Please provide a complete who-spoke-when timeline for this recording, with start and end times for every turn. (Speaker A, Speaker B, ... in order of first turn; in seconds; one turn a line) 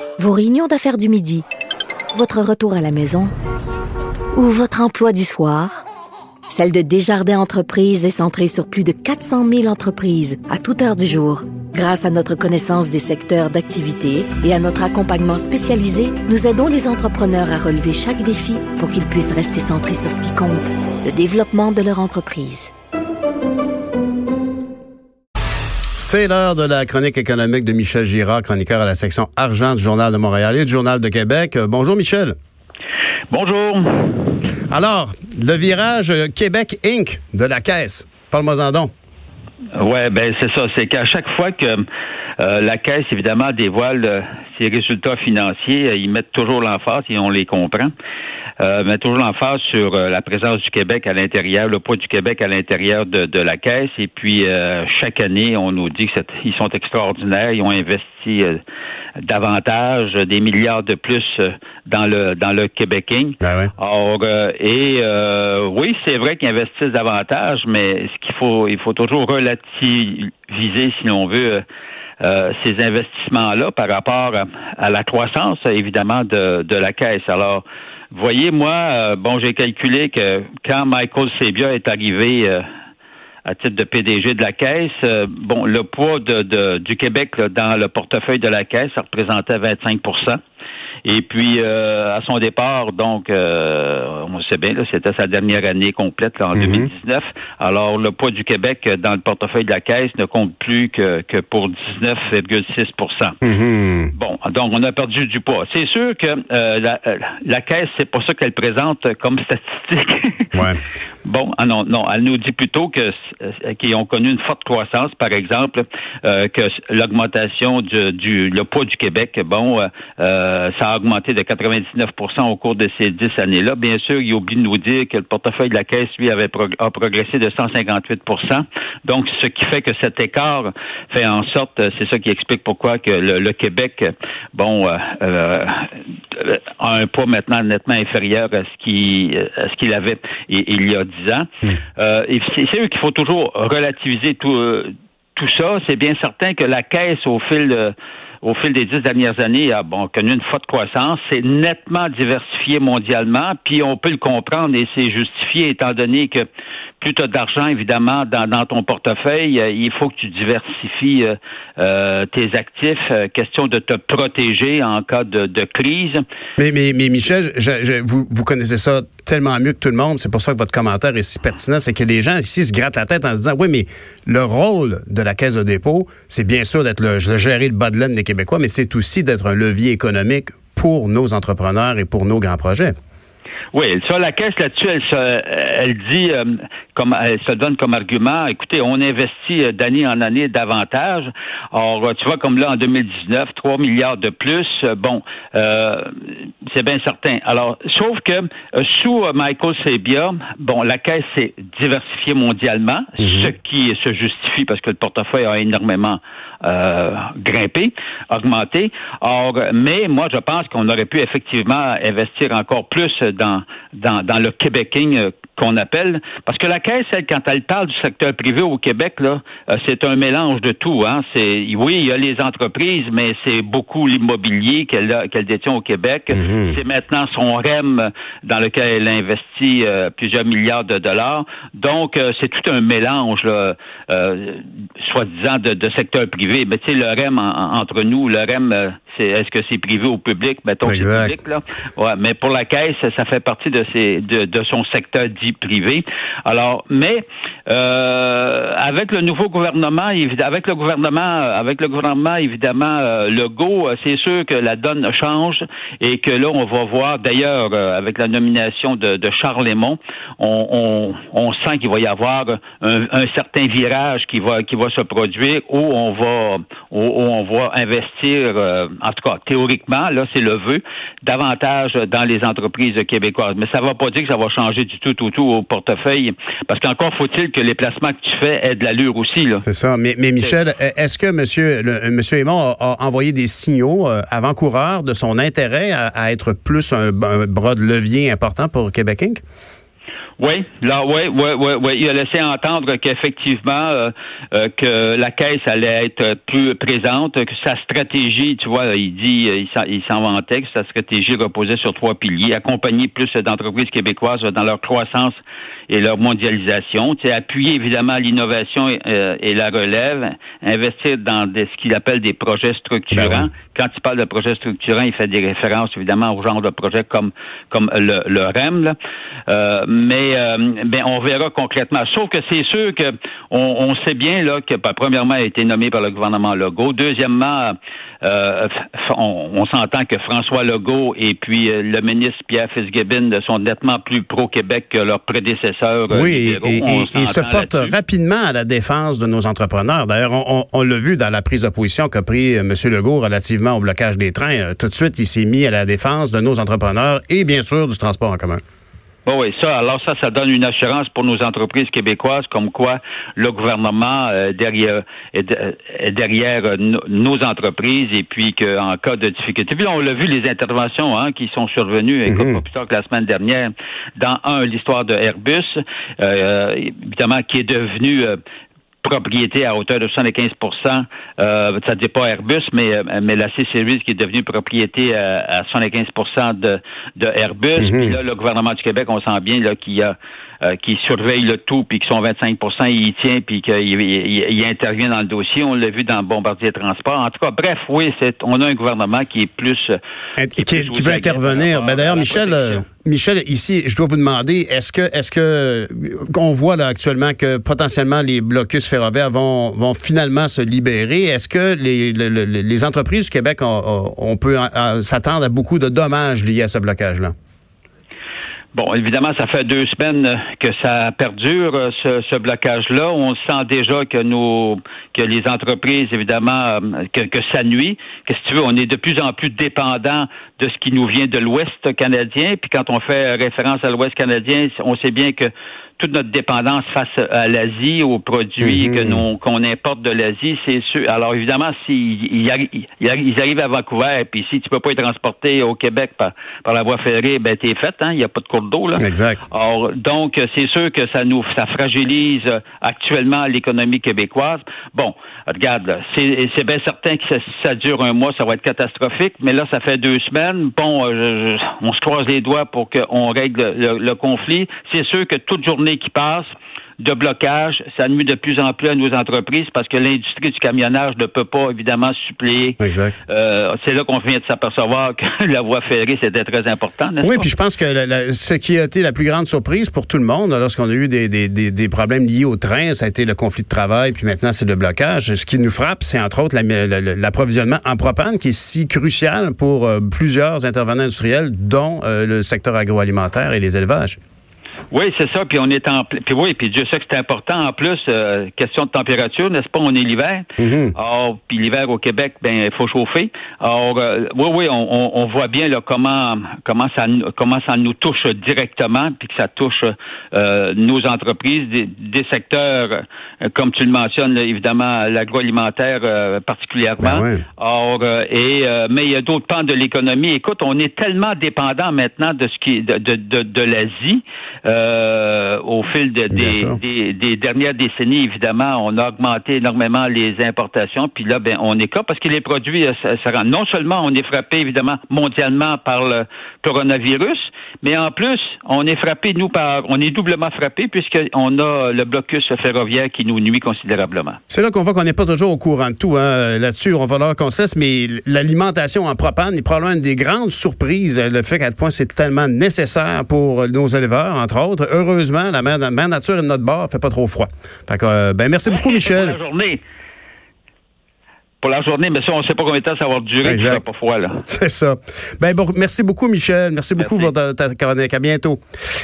Speaker A: 0.2-1.4
Speaker A: 2.1-3.3
Speaker A: 4.3-5.8
Speaker A: 6.5-22.7
Speaker B: 25.9-32.4
Speaker C: 33.3-34.4
Speaker B: 34.7-38.9
Speaker C: 39.8-41.9
Speaker C: 42.4-47.9
Speaker C: 48.6-58.6
Speaker C: 59.2-71.6
Speaker B: 63.4-63.7
Speaker C: 72.2-82.6
Speaker C: 83.5-90.4
Speaker C: 91.0-103.4
Speaker B: 96.5-96.9
Speaker B: 103.4-104.1
Speaker C: 104.2-110.7
Speaker B: 110.5-110.8
Speaker C: 111.2-156.5
Speaker C: 157.0-166.2
Speaker B: 166.6-182.9
Speaker C: 183.7-279.6
Speaker B: 203.2-203.5
Speaker B: 226.3-226.8
Speaker B: 240.8-241.3
Speaker B: 279.7-289.4
Speaker C: 290.4-318.9
Speaker B: 313.1-313.5
Speaker C: 319.5-337.9
Speaker B: 336.1-348.6
Speaker C: 349.3-368.4
Speaker B: 362.3-362.6
Speaker C: 369.0-390.0
Speaker B: 377.8-378.2
Speaker B: 390.4-407.3
Speaker C: 390.6-392.9
Speaker C: 408.7-456.5
Speaker B: 428.6-429.2
Speaker B: 439.0-439.4
Speaker C: 457.0-467.5
Speaker B: 462.8-463.1
Speaker B: 467.2-484.2
Speaker C: 484.9-534.4
Speaker B: 490.6-490.9
Speaker B: 507.0-507.4
Speaker B: 516.3-516.8
Speaker B: 534.5-549.4
Speaker C: 548.7-549.8
Speaker C: 551.6-554.4
Speaker B: 553.4-553.8
Speaker B: 554.5-558.6
Speaker C: 557.0-557.3